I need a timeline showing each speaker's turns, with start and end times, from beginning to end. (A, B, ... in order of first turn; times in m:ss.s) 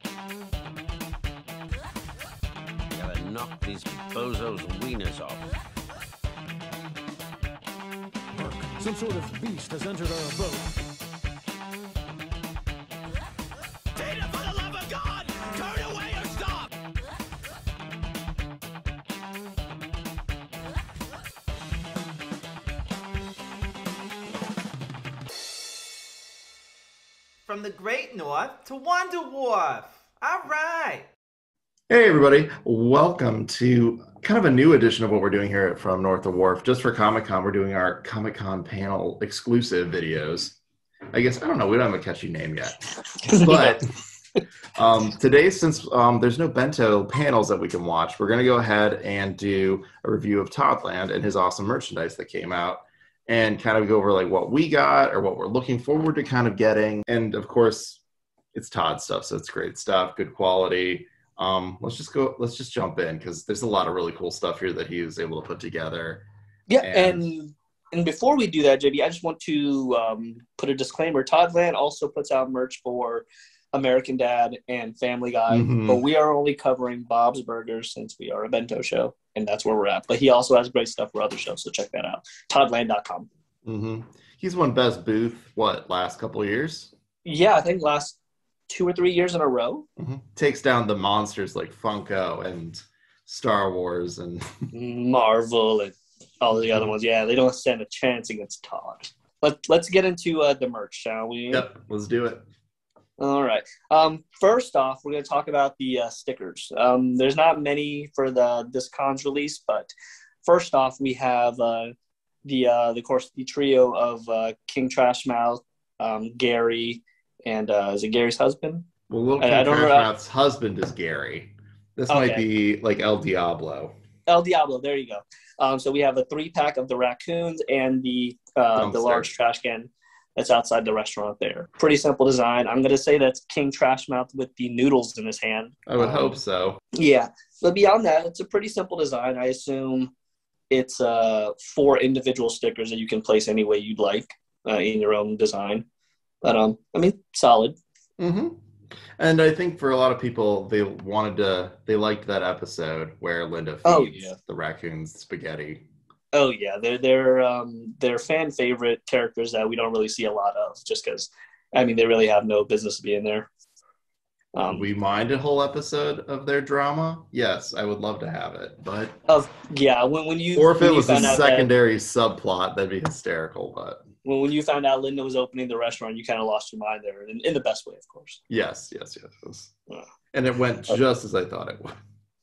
0:02.9-0:05.6 A
0:08.3-0:10.7 B
0:13.9-0:16.7 B
0:27.4-0:31.1 C
0:31.9-0:40.6 D
0:41.1-0:43.8 D
0:43.2-0:43.8 E
0:44.8-0:58.0 D
0:58.5-1:06.2 D
1:06.7-1:23.3 E
1:06.8-1:07.2 D
1:15.5-1:16.0 D
1:23.6-1:26.9 D
1:27.2-1:28.2 E
1:28.7-1:29.8 E
1:30.0-1:34.5 D
1:34.7-1:41.7 E
1:41.5-1:42.4 D
1:43.2-1:49.9 E
1:50.4-1:51.9 E
1:52.4-1:58.8 E
1:59.1-2:03.9 D
1:59.4-2:00.1 E
2:02.1-2:02.4 E
2:04.3-2:16.4 E
2:08.8-2:09.3 D
2:15.9-2:16.8 D
2:16.9-2:20.1 E
2:20.7-2:25.8 E
2:26.4-2:27.8 E
2:28.2-2:28.6 D
2:29.2-2:35.8 D
2:33.8-2:34.4 E
2:36.3-2:43.5 E
2:44.5-2:44.8 E
2:44.6-2:49.2 D
2:49.3-2:51.7 E
2:50.6-2:54.0 D
2:54.2-2:58.4 E
2:58.5-2:59.7 D
3:00.3-3:01.9 D